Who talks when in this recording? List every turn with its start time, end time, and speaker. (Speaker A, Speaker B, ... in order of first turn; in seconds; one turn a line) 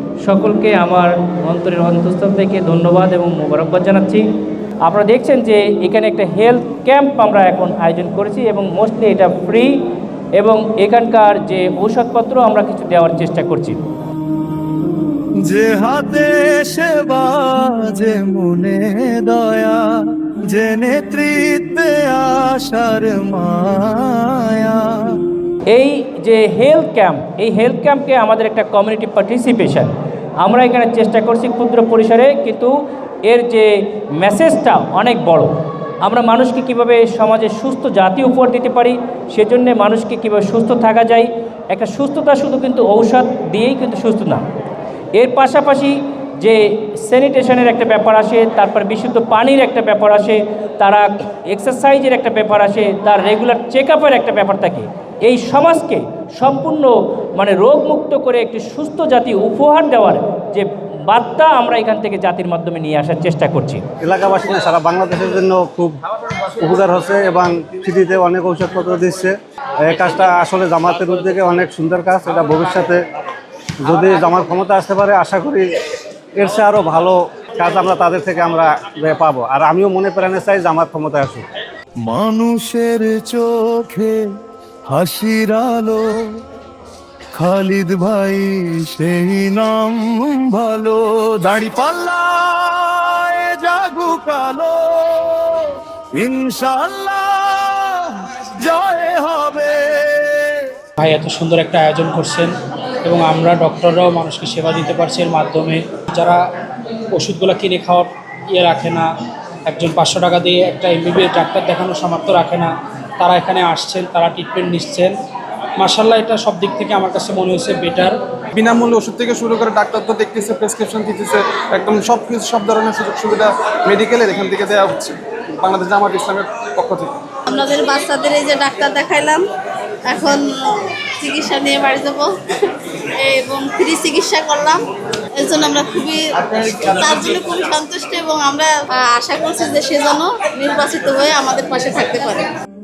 Speaker A: 0.2-4.2
Speaker A: 4.8-9.7
Speaker A: 10.4-13.8
Speaker B: 15.4-19.8
Speaker B: 20.5-25.2
Speaker A: 25.7-32.7
Speaker A: 33.3-33.7
Speaker A: 34.2-35.5
Speaker A: 36.0-44.4
Speaker A: 45.2-63.8
Speaker C: 64.0-73.0
Speaker C: 73.8-75.7
Speaker C: 76.4-81.5
Speaker B: 82.0-84.2
Speaker B: 84.9-86.3
Speaker B: 87.3-100.7
Speaker D: 101.0-102.5
Speaker D: 103.0-106.4
Speaker D: 107.1-109.1
Speaker D: 109.7-115.1
Speaker D: 115.8-118.6
Speaker E: 118.6-127.1
Speaker F: 127.5-129.4
Speaker F: 130.1-134.8
Speaker F: 135.4-142.5